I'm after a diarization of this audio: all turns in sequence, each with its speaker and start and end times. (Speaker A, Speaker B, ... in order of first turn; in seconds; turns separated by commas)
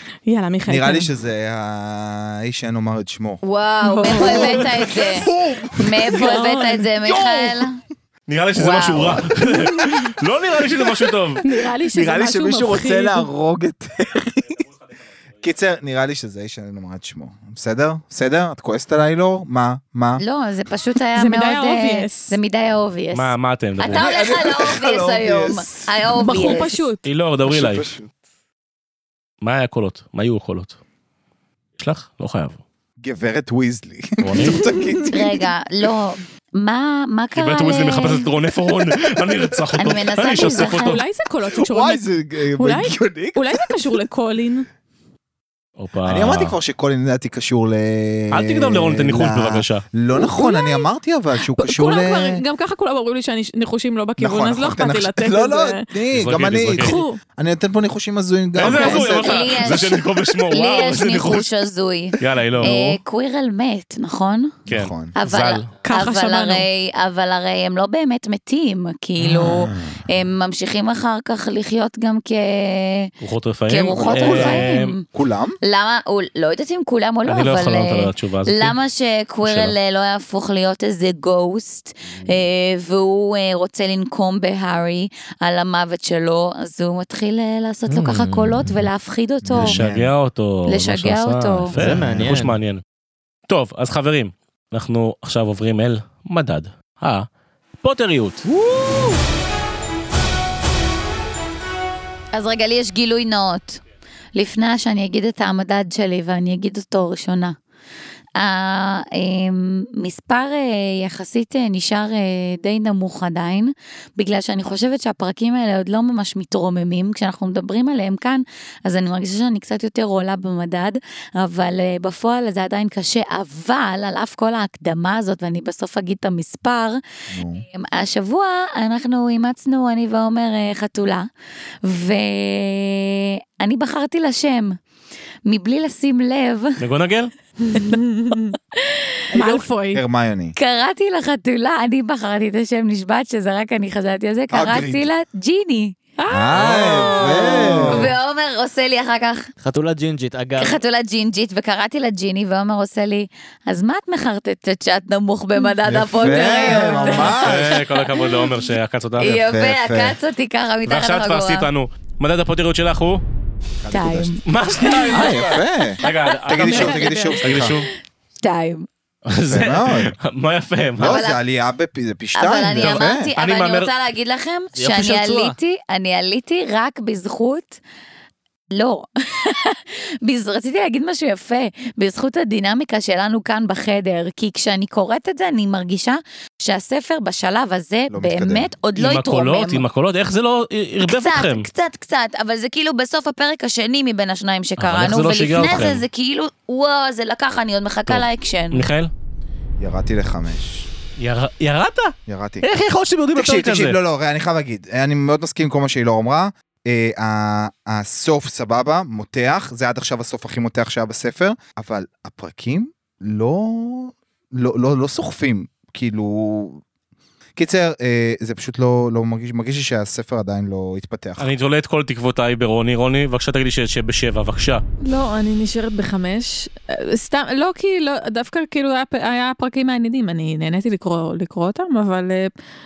Speaker A: 0.3-1.1, Speaker B: 0.7-3.4, Speaker C: 3.4-7.8, Speaker A: 3.8-4.7, Speaker B: 4.0-6.5, Speaker A: 6.0-7.4, Speaker D: 8.3-11.4, Speaker C: 8.6-9.2, Speaker A: 11.4-13.3, Speaker B: 11.9-14.6, Speaker B: 15.4-20.2, Speaker C: 20.2-26.8, Speaker A: 21.1-22.4, Speaker D: 23.1-24.1, Speaker B: 23.8-26.1, Speaker A: 26.2-27.0, Speaker D: 27.1-27.9, Speaker B: 27.5-28.1, Speaker D: 29.4-30.8, Speaker D: 31.8-32.6, Speaker B: 33.0-35.5, Speaker D: 34.2-34.6, Speaker A: 34.4-35.1, Speaker C: 35.0-38.3, Speaker D: 37.3-41.0, Speaker B: 39.2-39.6, Speaker C: 39.8-41.0, Speaker A: 40.4-42.0, Speaker B: 41.5-44.0, Speaker A: 42.6-44.7, Speaker D: 45.8-46.6, Speaker B: 46.1-52.4, Speaker D: 48.3-49.8, Speaker A: 50.1-50.9, Speaker A: 51.4-55.9, Speaker B: 54.2-60.0, Speaker D: 56.1-57.0, Speaker A: 56.8-57.2, Speaker D: 58.6-61.5, Speaker C: 58.6-64.6, Speaker D: 62.2-63.0, Speaker B: 64.7-65.1, Speaker D: 64.7-65.7, Speaker C: 65.2-73.1, Speaker A: 65.8-66.7, Speaker B: 69.2-70.0, Speaker D: 73.2-75.0, Speaker C: 73.7-75.1, Speaker B: 74.0-75.6, Speaker C: 75.6-89.8, Speaker D: 77.3-78.8, Speaker D: 79.4-79.8, Speaker E: 88.0-88.3, Speaker B: 89.4-90.1, Speaker D: 89.5-92.8, Speaker C: 90.7-91.7, Speaker E: 91.7-92.6, Speaker D: 93.5-97.3, Speaker D: 97.8-98.4, Speaker B: 98.5-99.1, Speaker C: 102.3-103.8, Speaker C: 104.3-107.6, Speaker C: 108.4-127.0, Speaker B: 127.3-127.6, Speaker C: 127.6-131.3, Speaker C: 131.8-134.8, Speaker C: 135.5-136.8, Speaker D: 136.8-137.3, Speaker A: 137.6-138.6, Speaker C: 138.7-139.6, Speaker A: 139.3-140.0, Speaker B: 139.4-140.6, Speaker C: 140.6-146.0, Speaker B: 144.5-145.1, Speaker A: 146.2-148.1, Speaker B: 146.3-148.2, Speaker C: 147.0-149.5, Speaker E: 149.6-150.8, Speaker C: 150.6-158.5, Speaker B: 155.8-157.8, Speaker A: 156.3-157.3, Speaker D: 157.3-159.3, Speaker B: 159.2-160.2, Speaker C: 159.2-161.7, Speaker D: 160.9-163.2, Speaker B: 163.8-167.8, Speaker C: 163.9-165.3, Speaker D: 164.4-167.9, Speaker A: 166.6-167.4, Speaker C: 168.4-168.9, Speaker D: 169.3-171.2, Speaker B: 169.5-170.2, Speaker B: 171.0-173.3, Speaker C: 171.0-171.4, Speaker C: 172.3-177.8, Speaker D: 172.7-173.9, Speaker E: 174.8-175.6, Speaker C: 178.7-189.8, Speaker B: 188.1-188.7, Speaker D: 189.0-191.7, Speaker C: 191.1-198.9, Speaker D: 194.8-196.1, Speaker D: 198.1-199.1, Speaker B: 199.8-200.9, Speaker D: 201.2-204.0, Speaker B: 202.3-202.7, Speaker B: 203.3-216.8, Speaker B: 217.6-221.5, Speaker D: 221.4-224.8, Speaker A: 225.0-232.5